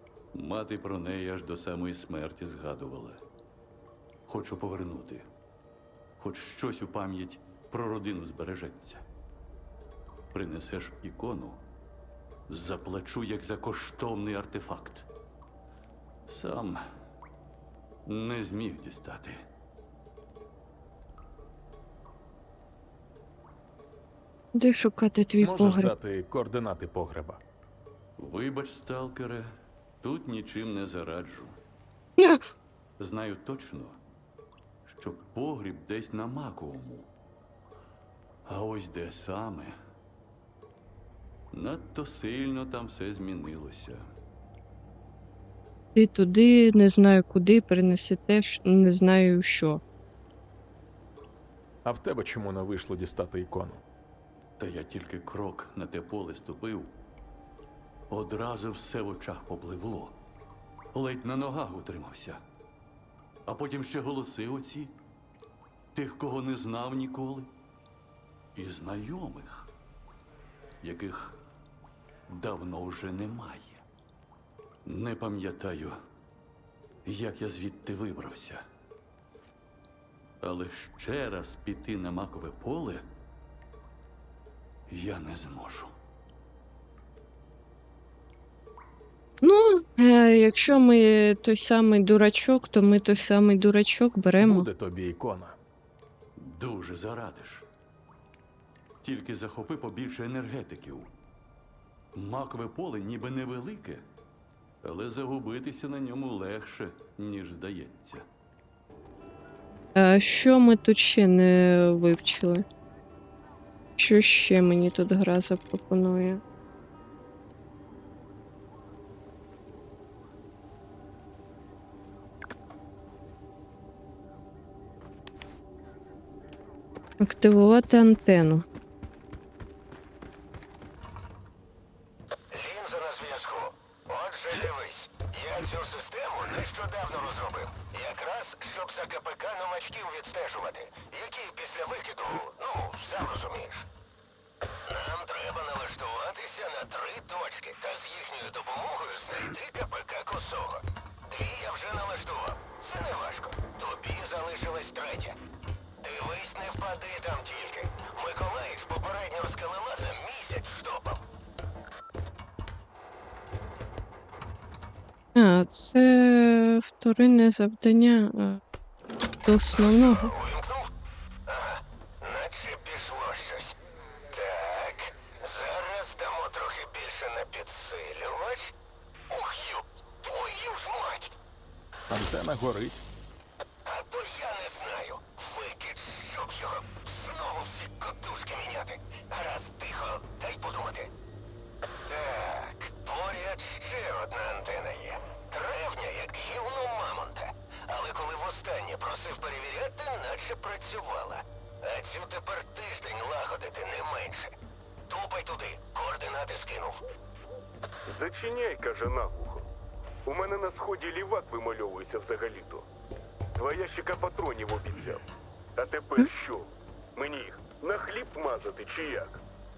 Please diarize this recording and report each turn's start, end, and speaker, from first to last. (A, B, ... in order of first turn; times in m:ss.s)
0:00.3-0:03.2 A
0:04.3-0:05.3 A
0:06.2-0:09.0 A
0:10.3-0:11.6 A
0:12.5-0:15.1 A
0:16.3-0:16.8 A
0:18.1-0:19.4 A
0:24.5-0:25.9 B
0:25.4-0:27.4 C
0:28.2-0:31.6 A
0:33.0-0:34.0 A
0:34.9-0:37.1 A
0:38.4-0:39.8 A
0:41.5-0:44.0 A
0:46.0-0:49.8 B
0:51.8-0:53.8 C
0:54.6-0:56.9 A
0:58.1-1:00.2 A
1:00.9-1:02.4 A
1:03.5-1:04.9 A
1:05.9-1:07.5 A
1:08.6-1:09.7 A
1:10.8-1:11.4 A
1:12.3-1:13.8 A
1:14.9-1:16.0 A
1:17.1-1:18.6 A
1:20.4-1:23.0 A
1:24.9-1:25.9 A
1:29.4-1:34.7 B
1:34.4-1:35.6 C
1:36.4-1:37.6 A
1:39.0-1:41.1 A
1:42.2-1:44.0 A
1:44.8-1:48.2 A
1:50.0-1:52.6 B
1:54.0-1:56.4 B
2:07.2-2:08.6 B
2:12.5-2:23.9 D
2:24.9-2:35.4 D
2:36.0-2:41.2 D
2:45.4-2:48.6 B
2:49.5-2:50.3 B
2:50.2-2:50.9 D
2:51.5-2:53.8 D
2:54.3-2:58.7 D
2:59.3-3:01.3 D
3:02.1-3:03.0 C
3:03.9-3:11.1 D
3:12.1-3:24.6 D
3:25.1-3:27.0 D
3:28.1-3:29.7 E
3:30.3-3:32.9 E
3:33.6-3:35.2 E
3:35.8-3:39.4 E